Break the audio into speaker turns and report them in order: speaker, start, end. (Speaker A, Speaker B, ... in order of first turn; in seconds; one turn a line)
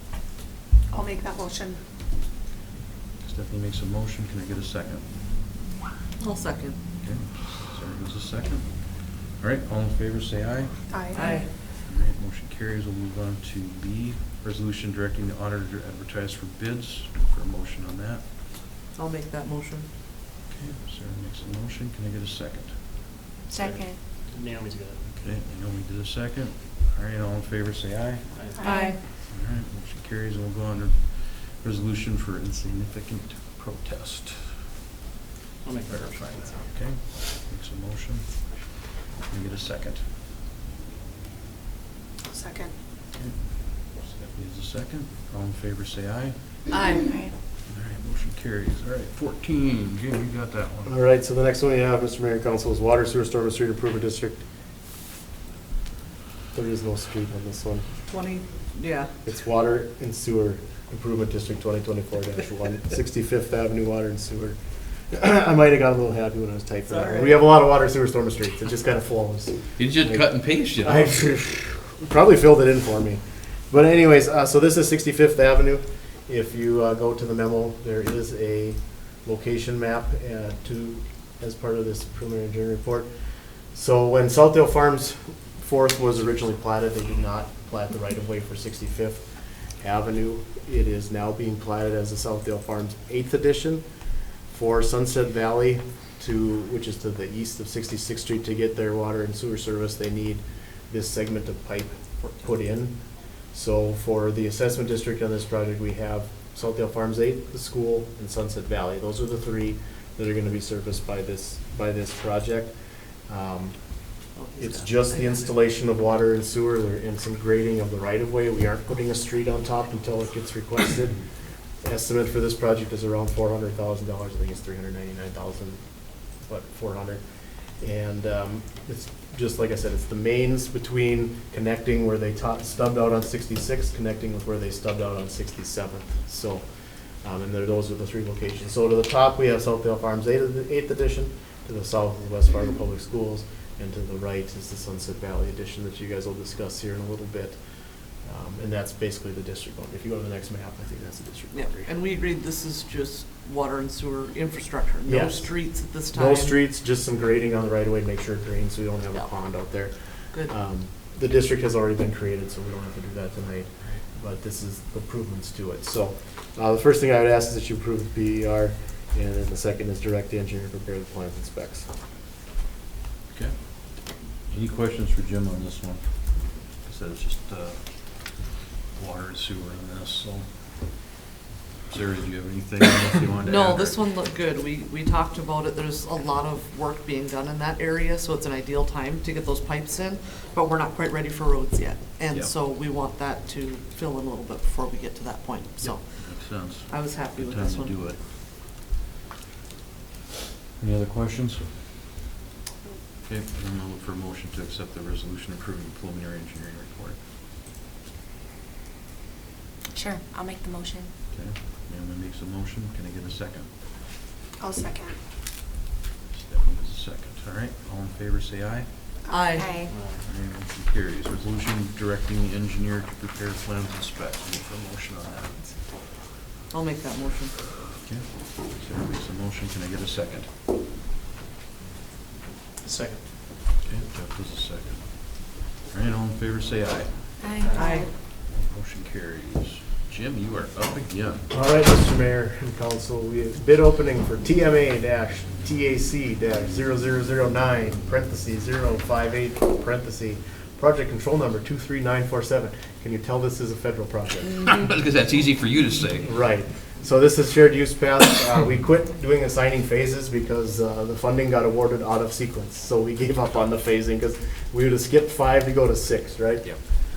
Speaker A: 0.9-1.8
Speaker B: 3.2-5.0
Speaker C: 6.2-6.8
Speaker B: 7.0-18.2
Speaker A: 10.9-11.4
Speaker C: 11.1-11.5
Speaker C: 18.9-19.9
Speaker B: 20.5-22.8
Speaker D: 23.5-24.0
Speaker E: 23.6-25.1
Speaker B: 25.2-34.7
Speaker E: 28.3-29.0
Speaker D: 28.6-29.0
Speaker E: 35.6-36.7
Speaker B: 35.9-40.0
Speaker A: 42.3-42.7
Speaker B: 43.1-46.4
Speaker C: 46.7-47.0
Speaker D: 46.9-47.3
Speaker B: 47.7-50.9
Speaker F: 50.9-54.4
Speaker F: 56.5-57.9
Speaker C: 58.1-59.1
Speaker F: 59.2-64.6
Speaker F: 65.1-70.3
Speaker C: 66.9-67.4
Speaker B: 69.8-71.4
Speaker F: 70.8-83.1
Speaker F: 83.7-89.2
Speaker F: 89.8-93.8
Speaker F: 94.5-102.9
Speaker F: 103.5-112.7
Speaker F: 113.3-113.8
Speaker C: 114.4-115.5
Speaker F: 114.6-121.2
Speaker F: 121.8-125.8
Speaker F: 126.3-127.2
Speaker F: 127.8-136.7
Speaker F: 137.2-147.6
Speaker F: 148.2-151.9
Speaker C: 151.5-156.6
Speaker F: 155.1-171.9
Speaker B: 173.3-174.0
Speaker B: 174.5-180.5
Speaker B: 181.9-184.0
Speaker C: 183.4-198.1
Speaker B: 195.8-198.2
Speaker B: 200.8-201.7
Speaker B: 203.3-207.2
Speaker D: 209.9-211.1
Speaker B: 211.3-213.7
Speaker A: 214.6-215.1
Speaker B: 216.3-218.9
Speaker C: 219.3-219.8
Speaker D: 219.5-219.9
Speaker E: 219.9-220.2
Speaker B: 220.2-225.7
Speaker C: 226.7-227.6
Speaker B: 228.0-230.5
Speaker E: 232.8-233.2
Speaker B: 233.8-237.3
Speaker D: 237.4-238.1
Speaker E: 237.6-238.0
Speaker C: 237.7-238.1
Speaker B: 238.4-241.5
Speaker F: 241.5-254.7
Speaker B: 254.7-256.3
Speaker F: 256.2-266.7